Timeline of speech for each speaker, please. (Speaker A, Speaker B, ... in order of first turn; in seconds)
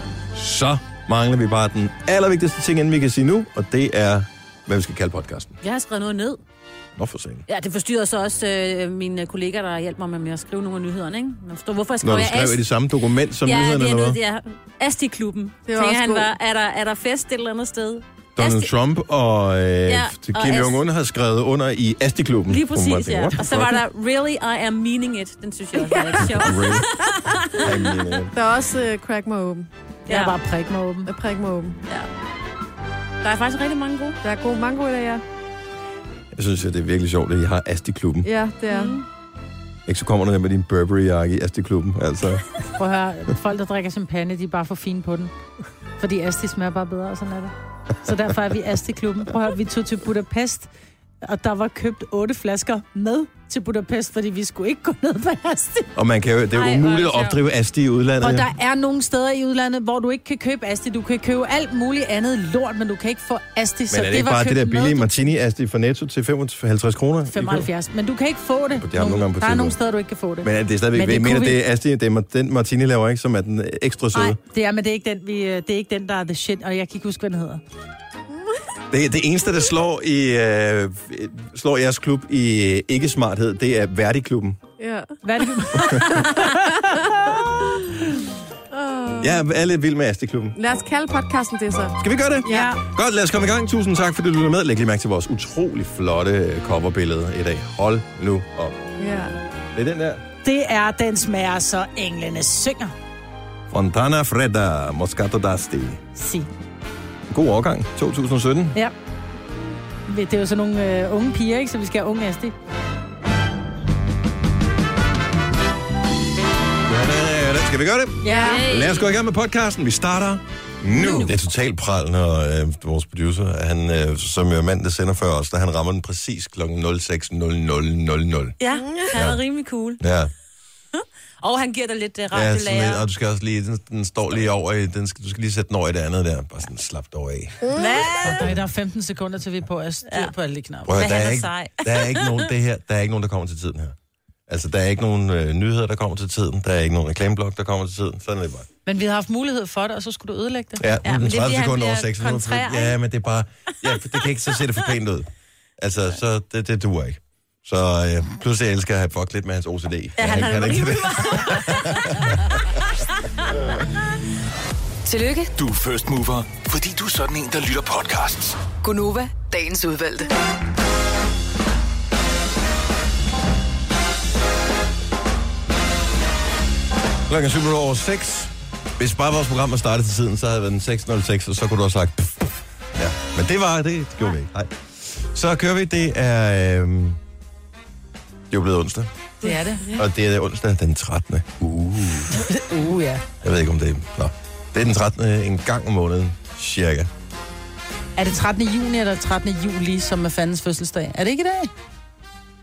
Speaker A: 0.3-5.6, 7.0-7.4, 12.0-14.2, 18.4-23.8, 26.2-27.0, 27.5-28.4, 36.3-38.3, 39.9-42.5, 56.0-58.5, 63.9-67.7, 68.7-69.8, 70.4-74.4, 78.9-84.6, 85.8-86.3, 89.2-90.6, 92.0-98.8, 99.8-100.2, 103.7-106.0, 107.3-108.8, 116.9-128.6, 129.1-129.4, 130.0-130.3, 132.3-137.6, 140.9-143.9, 144.5-148.7, 150.8-155.3, 155.8-162.6, 177.3-187.2, 188.5-189.1, 189.9-192.4, 193.4-197.1
Speaker B: 5.6-6.4, 7.5-12.7, 13.4-18.7, 19.9-20.8, 22.5-27.8, 30.1-30.4, 33.2-34.2, 38.7-39.0, 56.5-57.4, 118.4-119.1, 121.0-121.3, 128.6-130.0, 130.9-133.1, 137.8-138.5, 140.1-140.3, 140.9-142.5, 151.0-153.0, 160.2-162.6
Speaker C: 15.7-16.3, 25.8-26.6, 28.3-29.7, 31.1-31.8, 34.2-35.2, 38.2-39.0, 78.3-78.6, 84.8-87.9, 88.7-89.4, 90.6-92.8, 99.0-99.4, 118.3-118.6, 128.7-129.1, 137.6-138.3, 189.4-190.0
Speaker D: 30.1-31.1, 42.8-45.3, 46.0-50.7, 51.2-55.9, 58.2-65.2, 67.3-71.6, 74.2-77.6, 85.2-87.4, 92.5-92.8, 100.4-102.9, 106.2-106.5, 110.1-112.6, 118.2-118.6, 138.2-140.9, 148.9-150.8, 189.4-189.8, 192.3-193.2, 198.2-201.7
Speaker E: 165.1-165.5, 168.8-170.3
Speaker F: 165.6-168.6